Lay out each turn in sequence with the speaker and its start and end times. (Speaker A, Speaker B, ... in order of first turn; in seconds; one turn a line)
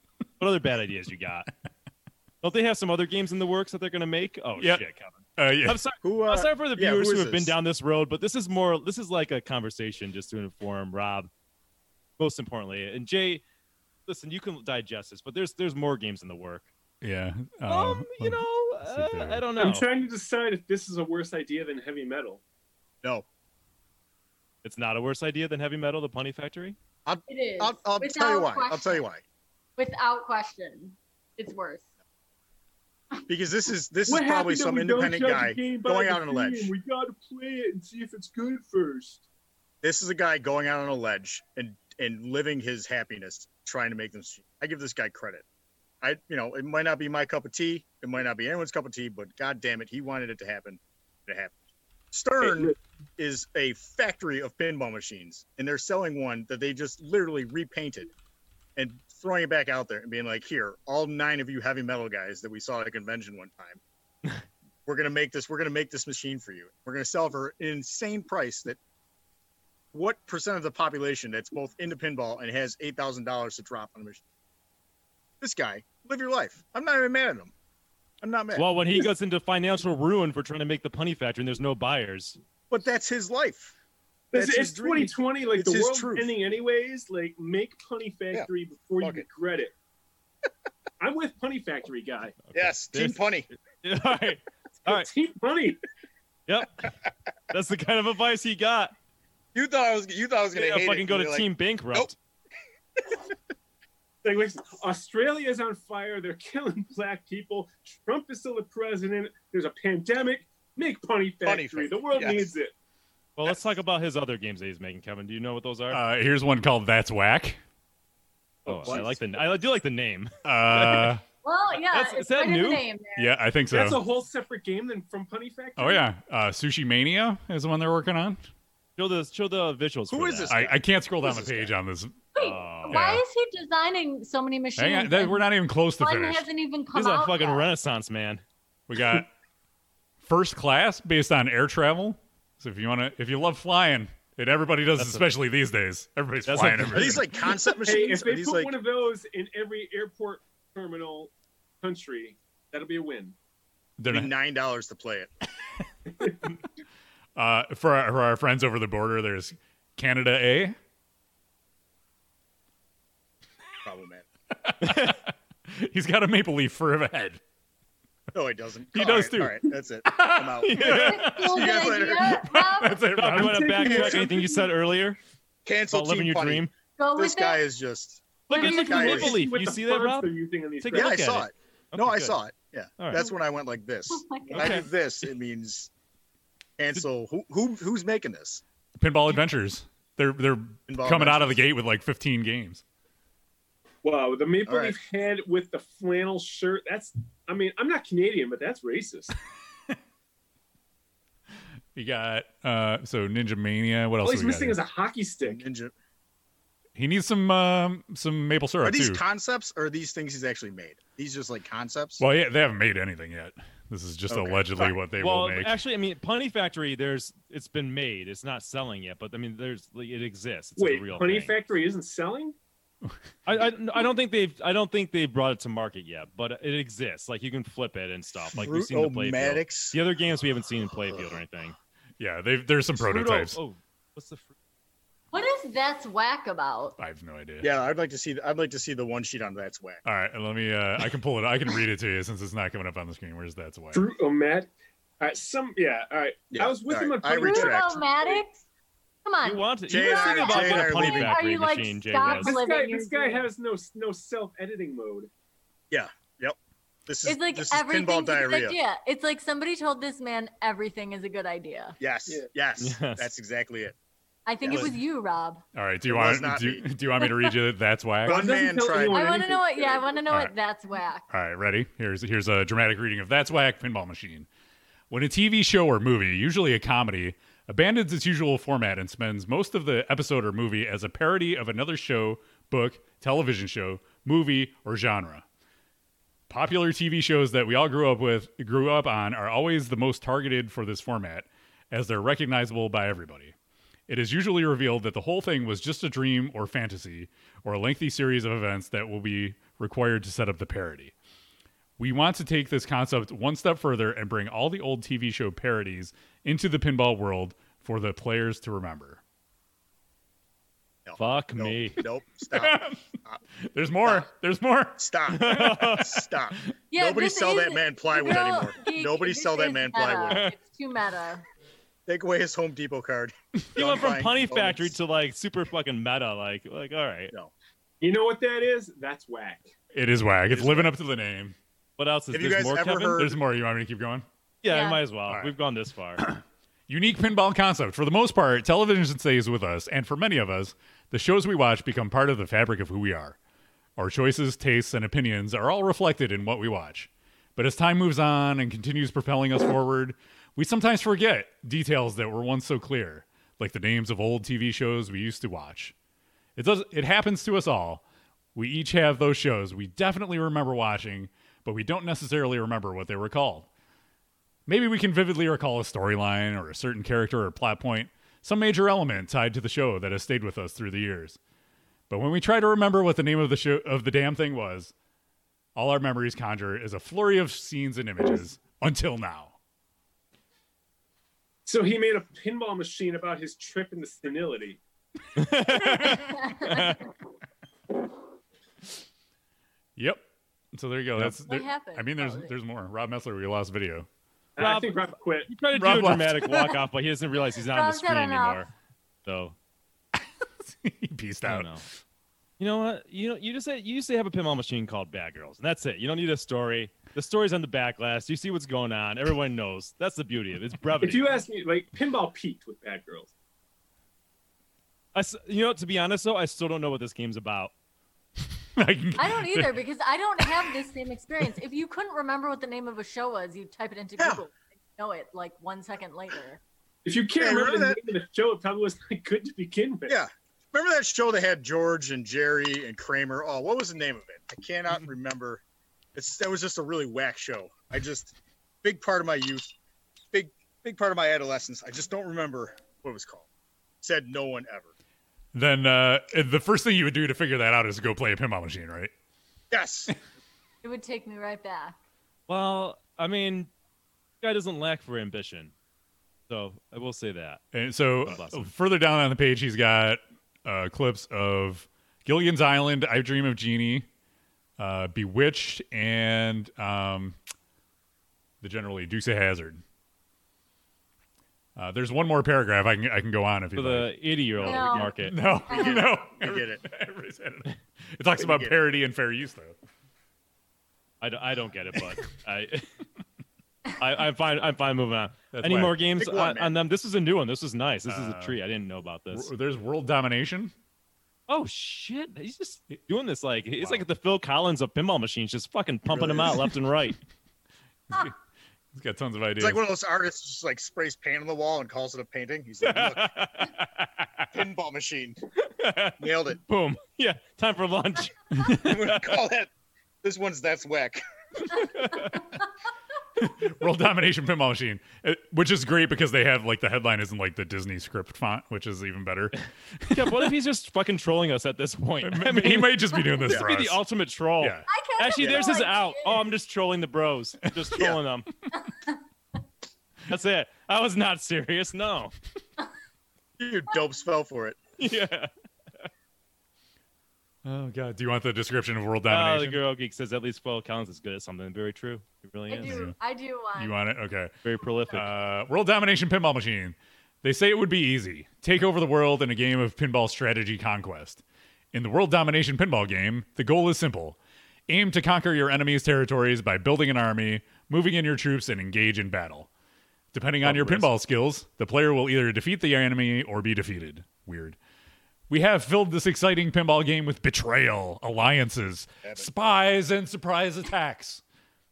Speaker A: 0.4-1.5
Speaker A: 2.4-11.3
Speaker B: 4.6-4.8
Speaker B: 5.4-5.8
Speaker C: 6.0-7.5
Speaker A: 12.2-13.4
Speaker A: 14.1-16.7
Speaker B: 17.0-19.4
Speaker A: 17.7-19.9
Speaker D: 19.6-22.4
Speaker A: 24.6-26.8
Speaker C: 27.1-29.2
Speaker E: 27.3-29.0
Speaker E: 29.8-31.9
Speaker C: 33.3-36.7
Speaker D: 34.1-39.2
Speaker C: 39.8-45.5
Speaker C: 46.0-51.6
Speaker C: 52.1-58.1
Speaker C: 58.8-63.8
Speaker C: 64.9-68.8
Speaker C: 69.9-74.2
Speaker C: 75.4-77.5
Speaker C: 78.2-78.7
Speaker A: 78.5-82.4
Speaker C: 82.7-83.7
Speaker D: 84.3-89.7
Speaker C: 84.3-86.3
Speaker D: 91.0-92.4
Speaker A: 92.5-95.1
Speaker C: 92.5-93.5
Speaker D: 94.9-95.8
Speaker A: 96.5-96.9
Speaker A: 97.5-98.9
Speaker C: 99.5-102.1
Speaker A: 100.5-102.2
Speaker D: 104.2-112.7
Speaker C: 111.4-112.5
Speaker A: 113.4-116.0
Speaker B: 115.9-117.6
Speaker A: 118.7-121.2
Speaker D: 118.7-119.0
Speaker C: 118.8-119.1
Speaker B: 120.5-121.2
Speaker E: 121.4-123.3
Speaker A: 121.9-122.8
Speaker B: 123.2-124.0
Speaker D: 123.7-126.0
Speaker B: 125.8-128.4
Speaker A: 129.0-130.6
Speaker C: 130.1-131.7
Speaker B: 130.5-132.2
Speaker E: 132.3-135.5
Speaker A: 132.4-133.1
Speaker B: 132.9-133.2
Speaker B: 134.8-136.4
Speaker E: 136.0-137.7
Speaker A: 136.9-138.4
Speaker B: 138.9-139.3
Speaker B: 140.2-147.3
Speaker A: 145.0-145.3
Speaker A: 146.5-147.2
Speaker C: 146.9-148.7
Speaker D: 147.8-153.4
Speaker B: 154.0-154.3
Speaker C: 154.1-155.3
Speaker B: 157.4-160.8
Speaker C: 163.8-164.3
Speaker B: 164.6-167.4
Speaker A: 164.8-165.2
Speaker C: 168.3-172.6
Speaker B: 168.9-171.8
Speaker A: 170.6-171.3
Speaker E: 170.8-173.2
Speaker B: 172.4-173.8
Speaker A: 173.2-175.2
Speaker D: 173.3-174.7
Speaker C: 173.9-174.2
Speaker C: 175.6-179.4
Speaker A: 175.9-176.7
Speaker E: 177.0-177.6
Speaker A: 178.5-182.4
Speaker D: 178.5-181.2
Speaker C: 180.9-185.9
Speaker A: 183.0-183.2
Speaker E: 184.1-184.8
Speaker A: 184.5-184.9
Speaker C: 186.8-188.6
Speaker B: 189.0-192.8
Speaker C: 190.9-191.6
Speaker D: 194.0-199.3
Speaker C: 194.7-194.9
Speaker B: 201.9-204.8
Speaker D: 204.2-205.6
Speaker C: 205.4-205.9
Speaker B: 206.9-209.2
Speaker C: 208.8-212.2
Speaker B: 212.2-215.8
Speaker C: 214.3-215.0
Speaker A: 215.2-221.6
Speaker D: 220.8-222.6
Speaker A: 223.4-231.8
Speaker C: 228.5-230.0
Speaker B: 232.2-233.6
Speaker A: 233.0-234.5
Speaker E: 235.3-236.9
Speaker B: 237.0-237.7
Speaker C: 237.6-240.0
Speaker B: 240.1-244.1
Speaker D: 243.9-248.4
Speaker C: 246.5-248.0
Speaker E: 247.4-248.6
Speaker E: 249.2-253.4
Speaker A: 249.4-252.6
Speaker C: 249.9-251.4
Speaker D: 252.2-255.3
Speaker C: 255.9-258.8
Speaker E: 257.2-262.0
Speaker C: 262.0-263.9
Speaker A: 262.8-263.3
Speaker E: 264.4-265.6
Speaker C: 264.6-264.9
Speaker B: 265.7-268.6
Speaker C: 266.1-266.8
Speaker D: 268.3-270.2
Speaker C: 268.3-269.3
Speaker E: 269.1-271.2
Speaker B: 271.3-274.5
Speaker B: 275.1-285.4
Speaker B: 286.5-293.5
Speaker B: 294.1-301.1
Speaker B: 302.0-309.2
Speaker C: 311.1-313.4
Speaker A: 311.2-312.0
Speaker B: 312.5-313.0
Speaker B: 313.7-315.1
Speaker C: 315.0-320.4
Speaker A: 315.3-316.2
Speaker E: 316.9-321.4
Speaker A: 320.2-320.6
Speaker C: 322.1-324.9
Speaker A: 323.7-327.3
Speaker D: 328.0-329.7
Speaker B: 329.9-331.6
Speaker A: 330.5-330.8
Speaker A: 332.0-333.2
Speaker C: 332.3-333.4
Speaker B: 333.2-334.2
Speaker A: 334.6-336.3
Speaker E: 334.7-335.0
Speaker B: 336.2-343.4
Speaker B: 344.0-355.9
Speaker B: 356.6-358.0
Speaker B: 358.6-363.7
Speaker B: 364.7-371.4
Speaker B: 372.1-374.9
Speaker B: 375.7-379.6
Speaker D: 381.7-384.8
Speaker A: 385.4-387.0
Speaker E: 386.3-386.9
Speaker B: 389.9-394.1
Speaker E: 391.4-392.5
Speaker D: 394.6-395.5
Speaker A: 394.6-398.7
Speaker B: 395.8-396.8
Speaker E: 397.6-398.7
Speaker A: 399.2-399.6
Speaker B: 400.6-401.9
Speaker A: 401.4-401.8
Speaker A: 402.6-411.4
Speaker D: 411.0-413.3
Speaker A: 415.1-417.7
Speaker B: 418.8-419.8
Speaker E: 419.2-426.6
Speaker D: 427.1-430.2
Speaker C: 427.4-428.0
Speaker C: 430.1-435.6
Speaker C: 436.1-439.7
Speaker C: 440.3-443.5
Speaker C: 444.0-444.9
Speaker B: 445.5-449.1
Speaker C: 449.7-450.1
Speaker E: 450.8-451.9
Speaker A: 452.5-453.7
Speaker A: 454.4-455.7
Speaker A: 456.5-457.6
Speaker B: 457.7-464.1
Speaker A: 458.2-458.7
Speaker B: 464.8-467.4
Speaker B: 468.6-469.8
Speaker B: 471.8-474.1
Speaker A: 473.7-475.3
Speaker E: 474.6-476.1
Speaker B: 474.7-479.7
Speaker C: 475.7-476.8
Speaker C: 478.4-478.8
Speaker A: 481.2-482.9
Speaker A: 484.0-489.5
Speaker B: 485.5-486.0
Speaker C: 486.2-486.7
Speaker B: 488.1-488.6
Speaker B: 489.3-490.7
Speaker A: 491.5-497.2
Speaker B: 493.8-494.1
Speaker C: 496.1-496.6
Speaker B: 498.9-499.8
Speaker C: 499.6-503.7
Speaker A: 502.8-504.5
Speaker C: 504.5-505.4
Speaker A: 505.6-509.3
Speaker C: 506.2-506.6
Speaker B: 508.5-509.0
Speaker C: 508.8-509.7
Speaker C: 510.2-511.8
Speaker A: 511.7-512.3
Speaker B: 513.4-520.5
Speaker A: 520.1-528.5
Speaker B: 522.2-524.0
Speaker B: 524.6-524.9
Speaker E: 524.9-526.5
Speaker E: 528.7-529.2
Speaker A: 530.3-532.3
Speaker C: 533.6-534.8
Speaker A: 535.0-535.5
Speaker B: 537.6-539.8
Speaker A: 539.3-543.0
Speaker E: 542.7-543.9
Speaker B: 542.8-543.1
Speaker B: 543.8-544.5
Speaker A: 544.6-545.3
Speaker B: 545.1-551.4
Speaker B: 551.9-554.4
Speaker B: 554.9-559.7
Speaker B: 560.3-564.8
Speaker A: 560.6-561.1
Speaker B: 565.5-571.4